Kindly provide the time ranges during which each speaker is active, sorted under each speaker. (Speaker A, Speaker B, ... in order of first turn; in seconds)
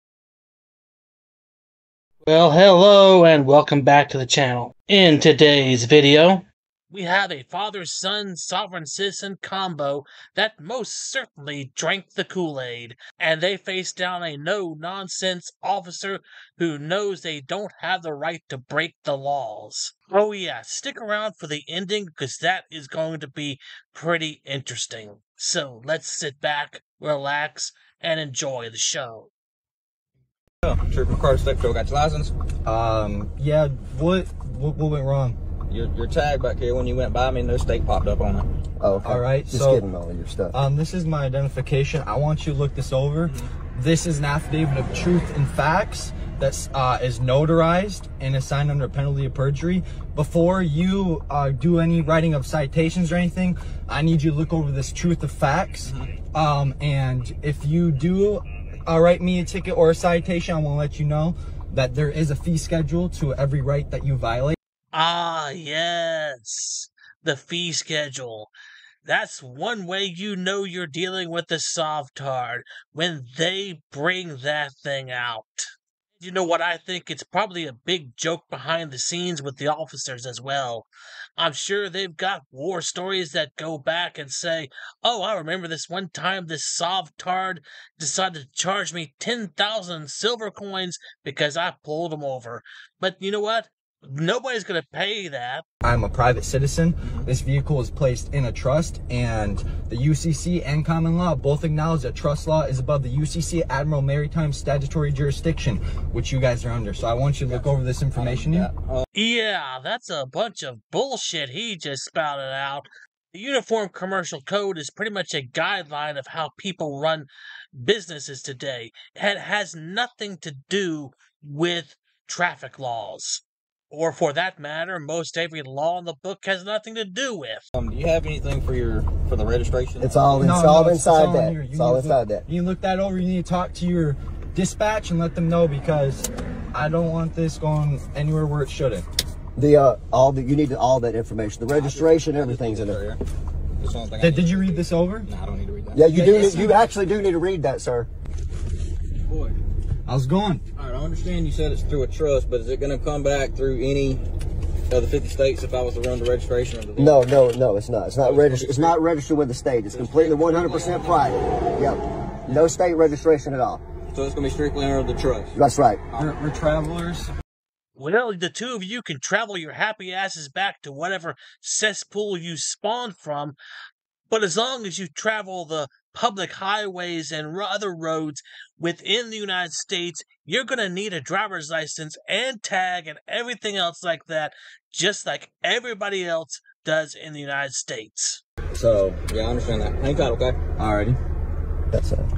Speaker A: 2.2-29.3, 64.9-68.5, 69.0-75.7, 76.2-95.6, 109.1-127.6, 168.0-173.6, 174.3-188.4
Speaker B: 30.6-32.3, 35.7-38.5, 107.5-109.0, 127.8-130.6, 141.7-143.2, 143.8-146.8, 149.3-149.6, 150.8-154.2, 154.9-157.3, 158.2-159.0, 159.9-161.3, 164.1-165.6, 189.3-190.6
Speaker C: 32.6-35.4, 39.0-39.8, 40.5-64.6, 95.8-108.7, 130.4-139.1, 144.2-145.3, 146.3-146.8, 150.1-150.6, 166.2-167.3, 188.7-189.2, 190.8-191.2
Speaker D: 38.8-40.5, 130.0-132.5, 139.6-143.0, 145.9-148.1, 157.0-163.8, 165.6-166.0, 191.9-192.3